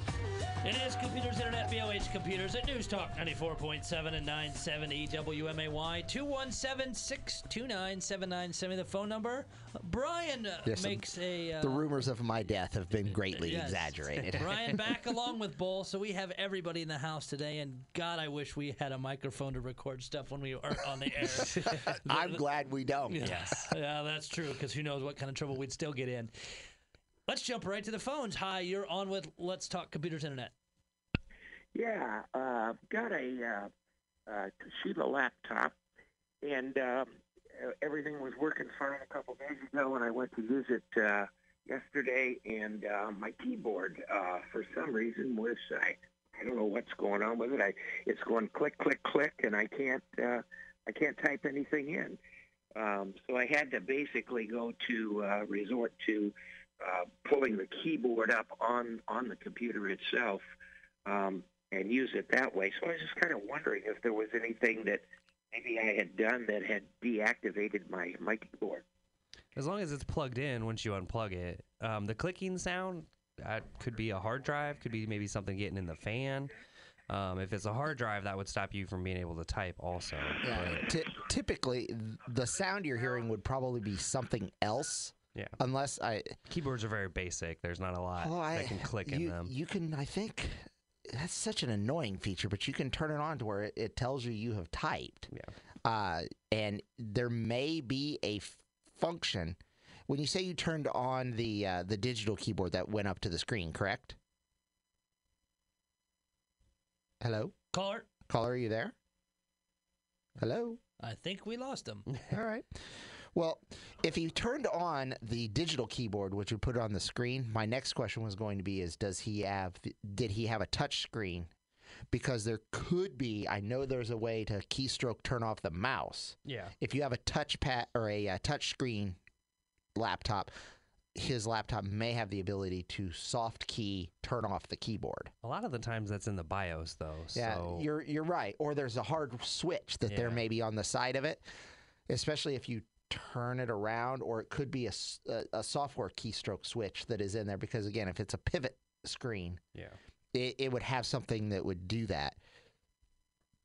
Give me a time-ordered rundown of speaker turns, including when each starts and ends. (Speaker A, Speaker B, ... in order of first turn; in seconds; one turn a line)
Speaker A: 0.6-11.9
Speaker B: 10.6-14.7
Speaker A: 13.3-22.4
Speaker B: 21.6-23.3
Speaker A: 23.1-26.5
Speaker C: 23.2-23.7
Speaker A: 27.3-30.5
Speaker D: 31.7-33.7
Speaker D: 34.3-35.7
Speaker D: 36.4-52.2
Speaker D: 52.7-60.5
Speaker D: 61.0-68.8
Speaker C: 69.5-76.5
Speaker C: 77.1-80.8
Speaker B: 80.4-86.4
Speaker C: 86.5-89.5
Speaker B: 88.2-95.3
Speaker B: 95.8-104.2
Speaker B: 107.2-107.5
Speaker A: 107.7-108.1
Speaker B: 108.3-108.9
Speaker B: 110.4-110.8
Speaker A: 111.0-112.1
Speaker B: 112.3-121.5
Speaker B: 122.1-129.2
Speaker C: 126.5-126.7
Speaker B: 129.9-130.5
Speaker B: 131.1-135.3
Speaker C: 135.4-137.9
Speaker B: 137.3-141.4
Speaker C: 140.1-140.4
Speaker B: 142.1-149.6
Speaker B: 150.3-152.4